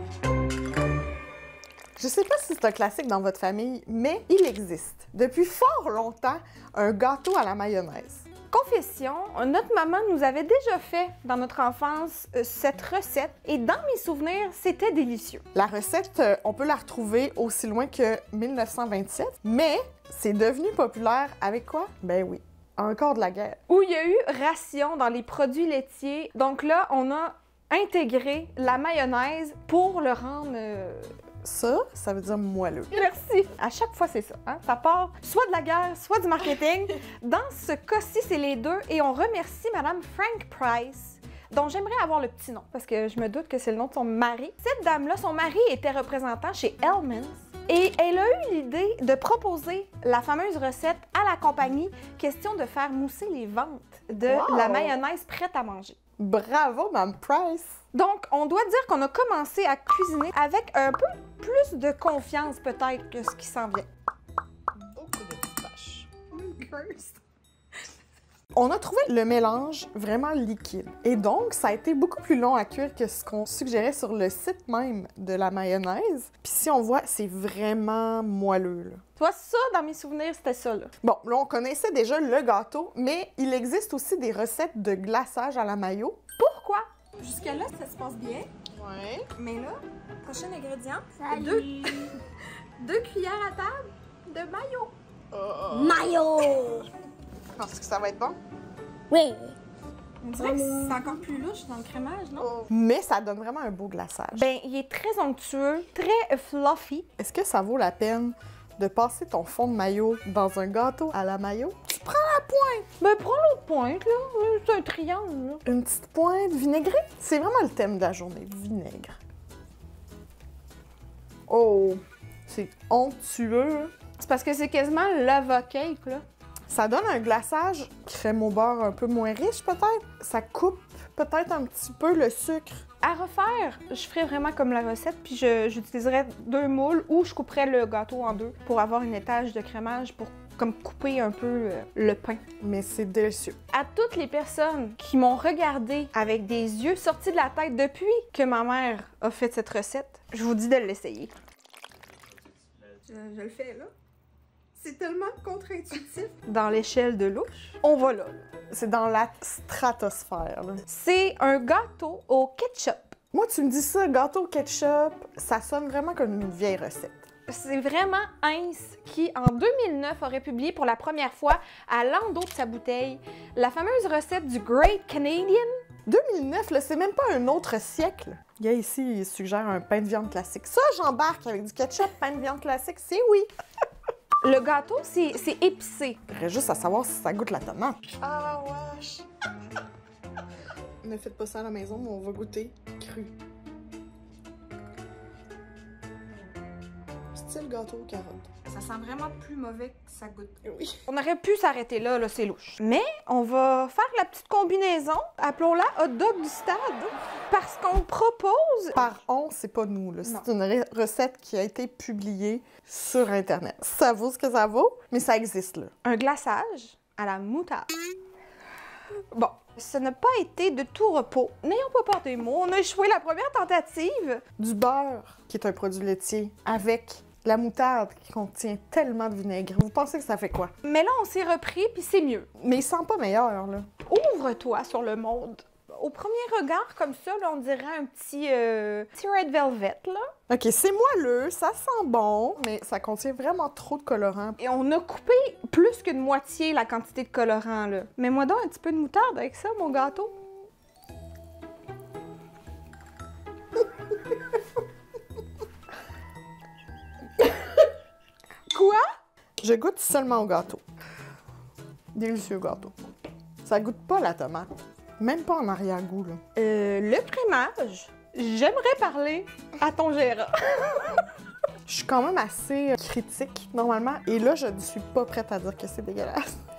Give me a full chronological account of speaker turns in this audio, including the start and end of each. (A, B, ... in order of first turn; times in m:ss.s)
0:02.0-0:08.3 A
0:08.5-0:15.4 B
0:15.5-0:23.6 A
0:23.7-0:31.1 B
0:31.4-0:33.2 A
0:32.9-0:56.0 B
0:54.3-0:55.0 A
0:56.2-0:57.8 A
0:57.9-1:03.9 B
1:04.8-1:06.5 A
1:06.5-1:07.1 B
1:08.5-1:19.0 A
1:19.2-1:20.9 B
1:21.0-1:26.2 A
1:26.4-1:28.5 B
1:28.7-1:29.3 A
1:29.4-1:32.2 B
1:31.3-1:32.0 C
1:32.8-1:34.9 B
1:35.3-1:36.1 A
1:35.7-1:36.9 C
1:37.6-1:38.4 A
1:39.1-1:39.6 C
1:40.2-1:42.6 B
1:40.5-1:40.9 C
1:42.6-1:44.5 A
1:44.3-1:47.1 B
1:47.2-1:52.9 A
1:53.0-1:55.6 B
1:55.6-1:59.2 A
2:01.5-2:03.9 A
2:04.2-2:06.2 B
2:06.7-2:12.8 A
2:13.0-2:22.4 B
2:22.6-2:23.6 A
2:23.7-2:31.3 B
2:33.0-2:33.9 B
2:34.8-2:38.4 B
2:38.7-2:40.8 A
2:40.9-2:43.2 B
2:43.3-2:47.2 A
2:47.5-2:55.8 B
2:56.1-3:03.5 A
3:04.4-3:06.2 B
3:06.3-3:09.3 A
3:11.0-3:13.3 A
3:17.3-3:18.6 A
3:18.7-3:29.0 B
3:20.6-3:21.0 A
3:28.9-3:35.9 A
3:36.0-3:38.0 B
3:39.3-3:44.4 B
3:44.6-3:50.7 A
3:50.8-3:52.5 B
3:52.6-3:53.9 A
3:54.0-4:00.3 B
4:00.5-4:04.6 A
4:04.6-4:10.4 B
4:18.7-4:19.1 B
4:19.6-4:20.8 A
4:22.1-4:23.0 A
4:23.6-4:26.4 A
4:26.6-4:31.3 B
4:31.9-4:36.5 A